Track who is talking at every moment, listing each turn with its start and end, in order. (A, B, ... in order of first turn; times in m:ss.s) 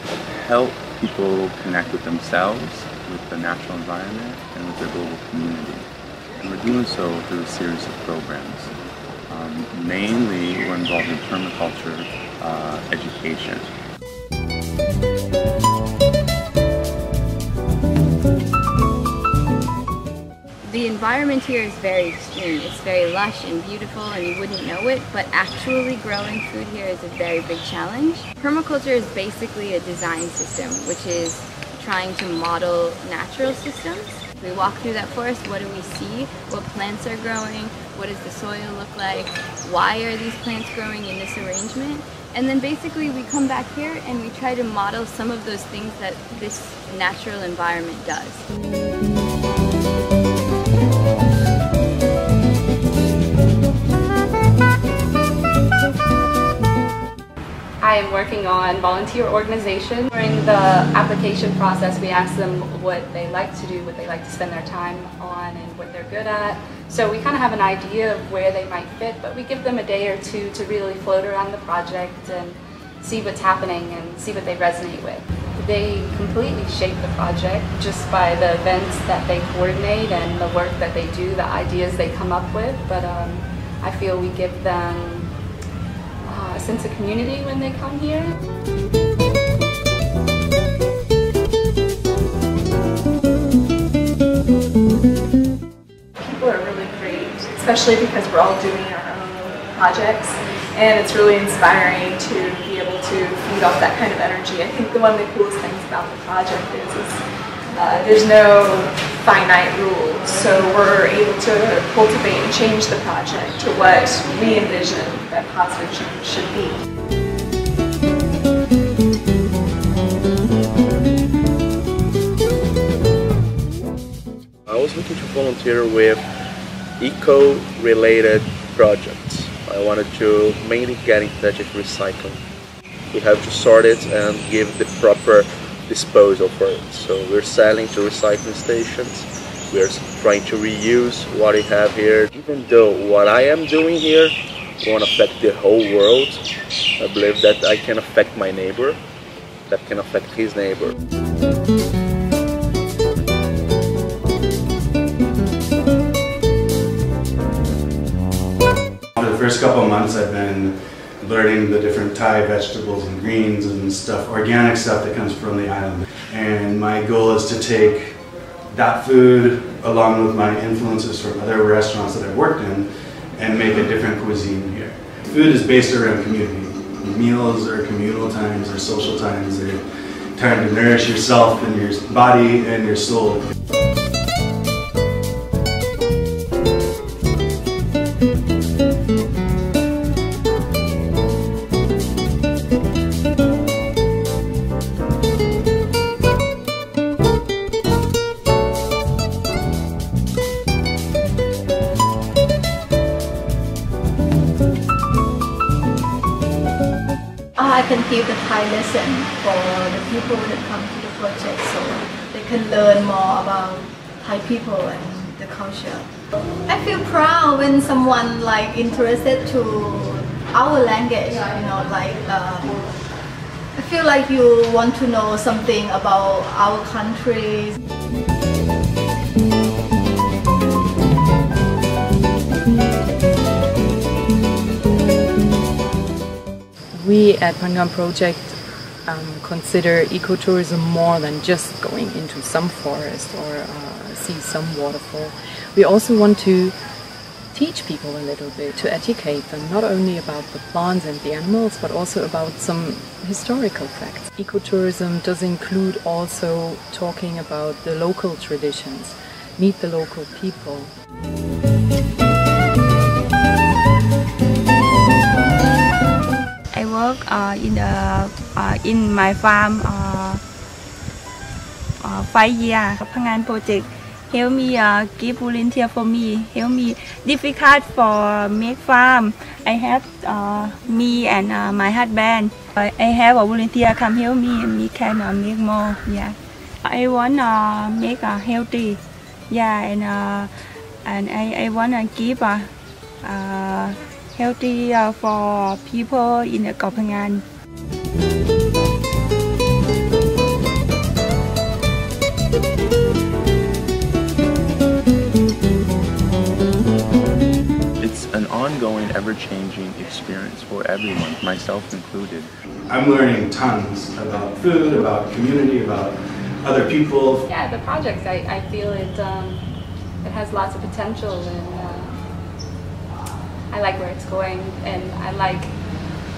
0:00.4-0:05.9 A
0:06.4-0:08.7 A
0:09.3-0:13.7 A
0:20.6-0:48.5 B
0:57.8-1:25.3 C
1:26.3-1:28.4 C
1:36.2-1:47.2 D
1:47.7-1:56.8 D
2:04.7-2:06.2 E
2:07.0-2:12.4 E
2:13.1-2:26.4 E
2:27.0-2:29.0 E
2:29.7-2:30.9 E
2:39.2-2:48.2 F
2:48.7-2:59.8 F
3:00.4-3:03.4 F
3:27.6-3:36.1 G
3:36.7-3:42.9 G
3:43.8-3:47.8 G
3:57.0-4:06.7 H
4:07.5-4:20.9 H
4:26.7-4:30.4 I
4:32.0-4:49.0 I
4:49.5-4:50.5 I
4:51.0-4:52.7 I
4:53.2-4:57.4 I
5:08.0-5:12.5 A
5:12.9-5:17.4 F
5:17.5-5:19.7 C
5:20.2-5:22.2 C
5:23.7-5:25.8 C